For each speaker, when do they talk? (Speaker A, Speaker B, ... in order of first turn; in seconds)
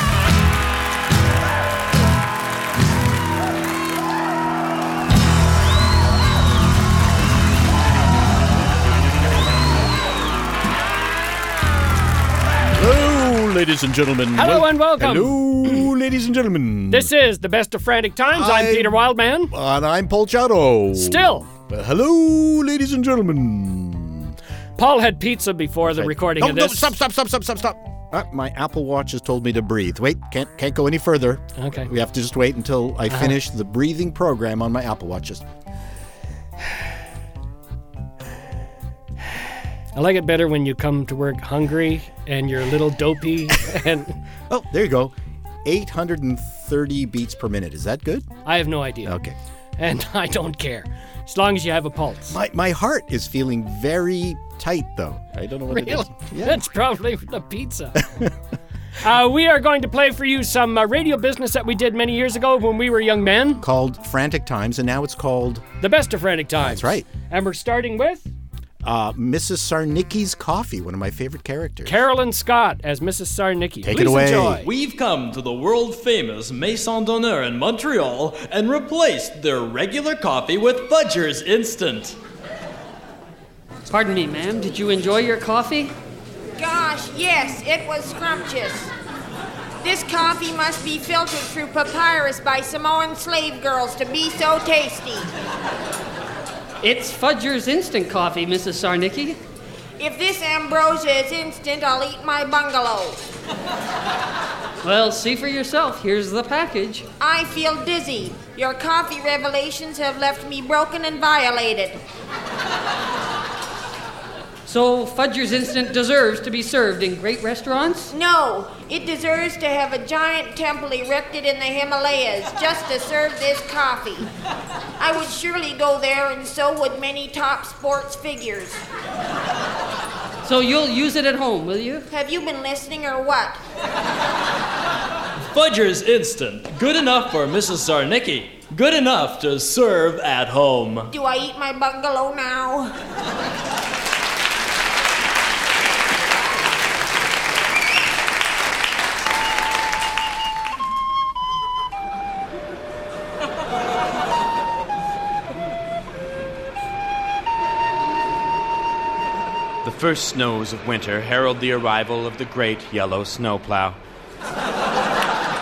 Speaker A: 12.7-17.1, 18.3-24.3, 25.8-35.4, 44.5-48.3, 49.0-49.4, 52.3-56.6, 63.6-65.7, 66.6-67.1, 68.8-72.0, 73.8-74.7
Speaker B: 14.3-15.8, 16.9-19.5, 20.9-21.5, 24.8-26.9, 31.6-31.9, 33.1-33.4, 39.9-44.2, 48.4-49.2, 49.8-52.4, 55.7-58.1, 59.0-63.6, 65.8-68.3, 71.8-74.7
Speaker C: 74.6-82.2, 135.5-141.1
Speaker D: 83.9-85.9, 96.8-99.4, 104.8-107.0, 114.7-118.1, 130.4-132.1
Speaker E: 86.6-88.9, 89.8-95.3, 100.0-103.2, 107.2-112.0, 118.1-124.3, 125.0-128.8, 132.1-133.6, 141.1-142.9
Speaker F: 159.8-164.0